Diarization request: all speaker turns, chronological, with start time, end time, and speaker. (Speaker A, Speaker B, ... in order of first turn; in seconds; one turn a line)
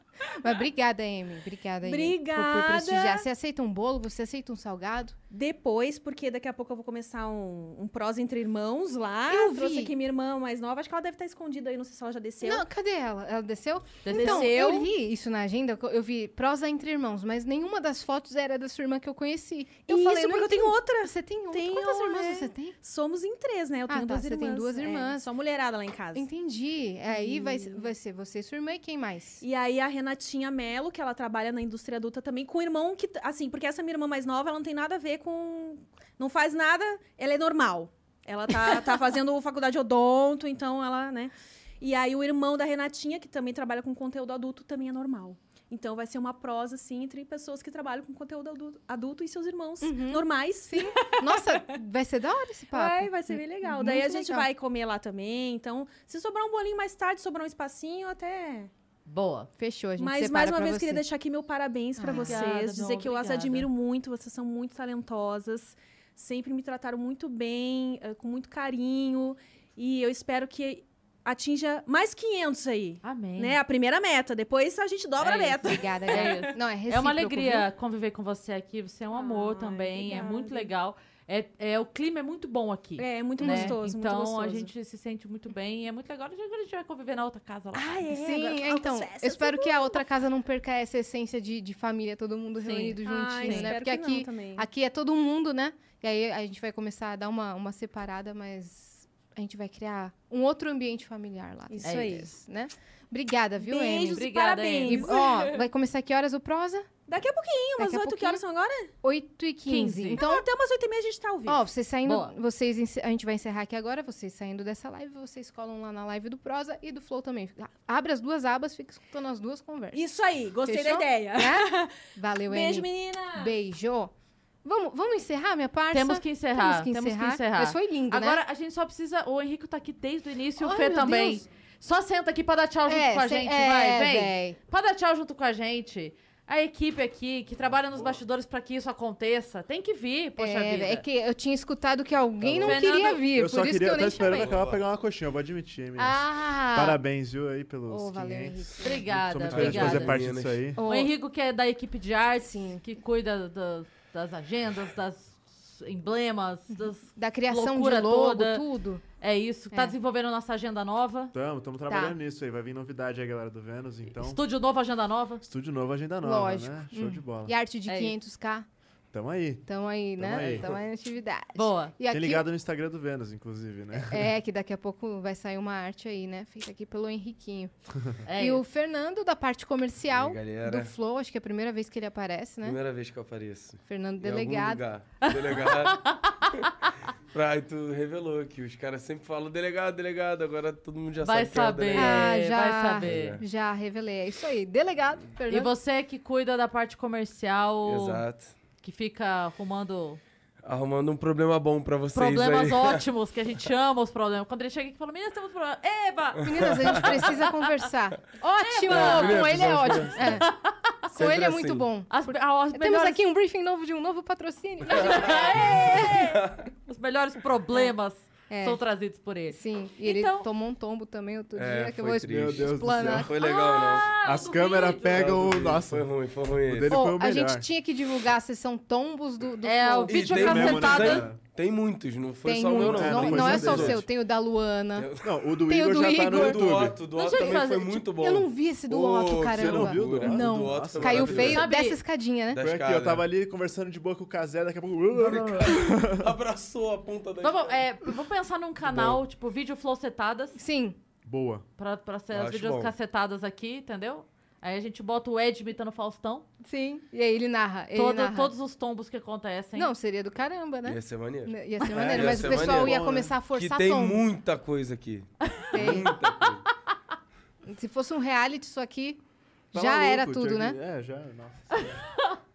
Speaker A: 0.4-5.1
Speaker B: 1.8-3.3
Speaker B: 5.3-12.7
Speaker A: 9.3-9.9
Speaker A: 12.4-22.8
Speaker C: 14.0-14.9
Speaker B: 14.1-14.8
Speaker B: 19.9-26.3
Speaker A: 23.9-25.3
Speaker A: 26.1-29.4
Speaker B: 27.1-27.9
Speaker B: 29.4-51.6
Speaker A: 49.8-54.5
Speaker B: 52.7-58.7
Speaker C: 59.0-59.5
Speaker A: 59.6-61.1
Speaker B: 60.0-76.4
Speaker A: 62.0-62.4
Speaker C: 62.1-63.7
Speaker C: 73.0-73.6
Speaker C: 75.2-88.1
Speaker A: 75.6-77.7
Speaker B: 79.1-80.7
Speaker B: 83.0-84.7
Speaker A: 83.4-83.8
Speaker B: 87.7-90.0
Speaker A: 88.1-106.9
Speaker C: 92.6-93.8
Speaker B: 93.0-94.6
Speaker B: 101.7-102.3
Speaker C: 101.8-102.2
Speaker B: 103.6-105.7
Speaker C: 104.1-105.2
Speaker B: 107.1-108.9
Speaker A: 107.8-108.4
Speaker A: 109.0-110.5
Speaker C: 109.7-110.2
Speaker B: 110.1-111.6
Speaker A: 111.5-120.0
Speaker C: 112.0-112.3
Speaker B: 119.9-123.5
Speaker A: 120.6-124.1
Speaker A: 124.6-128.4
Speaker C: 125.9-141.0
Speaker A: 130.6-131.4
Speaker A: 132.9-134.6
Speaker D: 137.9-138.2
Speaker A: 140.4-144.5
Speaker E: 142.4-150.9
Speaker C: 142.6-143.3
Speaker C: 144.0-144.5
Speaker D: 144.2-144.8
Speaker A: 146.0-147.0
Speaker A: 147.9-149.0
Speaker C: 148.8-150.1
Speaker D: 149.4-150.7
Speaker A: 150.8-151.1
Speaker C: 150.8-158.6
Speaker A: 152.4-152.8
Speaker A: 156.7-159.0
Speaker C: 159.2-161.3
Speaker E: 161.3-164.4
Speaker A: 161.9-162.2
Speaker C: 164.2-165.4
Speaker E: 165.4-167.6
Speaker A: 166.2-168.7
Speaker C: 167.8-168.1
Speaker E: 169.1-169.6
Speaker A: 169.6-172.5
Speaker E: 170.2-170.8
Speaker C: 171.6-171.9
Speaker E: 172.1-174.3
Speaker A: 174.1-177.7
Speaker C: 178.3-178.6
Speaker A: 178.3-182.8
Speaker D: 180.1-180.9
Speaker D: 182.6-186.0
Speaker A: 183.8-184.8
Speaker C: 185.2-186.3
Speaker D: 187.3-192.3
Speaker C: 191.2-193.4
Speaker A: 191.9-195.7
Speaker D: 193.0-193.4
Speaker C: 195.5-198.2
Speaker D: 197.8-198.5
Speaker C: 198.8-200.2
Speaker D: 200.6-203.0
Speaker C: 202.1-207.4
Speaker A: 206.4-210.4
Speaker C: 208.6-209.4
Speaker D: 208.9-210.4
Speaker C: 210.2-210.7
Speaker A: 211.1-215.7
Speaker D: 211.1-211.9
Speaker C: 212.1-213.2
Speaker C: 214.8-220.5
Speaker D: 216.3-216.6
Speaker A: 218.5-218.8
Speaker A: 219.5-223.8
Speaker D: 221.5-224.1
Speaker E: 222.2-223.3
Speaker C: 223.3-225.3
Speaker E: 224.2-227.7
Speaker D: 225.1-227.0
Speaker A: 226.9-230.5
Speaker C: 229.6-231.3
Speaker D: 230.1-234.0
Speaker E: 230.2-231.4
Speaker A: 232.4-235.1
Speaker E: 232.7-234.0
Speaker D: 234.9-235.3
Speaker E: 235.2-237.0
Speaker A: 235.6-236.8
Speaker D: 236.1-241.6
Speaker C: 237.1-238.1
Speaker A: 238.1-242.6
Speaker E: 239.5-241.7
Speaker C: 241.4-242.0
Speaker D: 242.5-243.3
Speaker E: 242.6-246.2
Speaker D: 245.2-247.9
Speaker C: 247.4-250.6
Speaker D: 248.8-249.2
Speaker A: 250.6-250.9
Speaker E: 251.2-251.6
Speaker C: 251.8-256.5
Speaker D: 252.3-252.9
Speaker A: 256.6-258.5
Speaker C: 257.9-259.9
Speaker A: 259.8-264.2
Speaker D: 260.8-266.6
Speaker E: 261.9-263.4
Speaker A: 265.7-266.1
Speaker A: 267.6-269.2
Speaker A: 269.7-270.8
Speaker E: 269.7-271.8
Speaker C: 271.8-272.4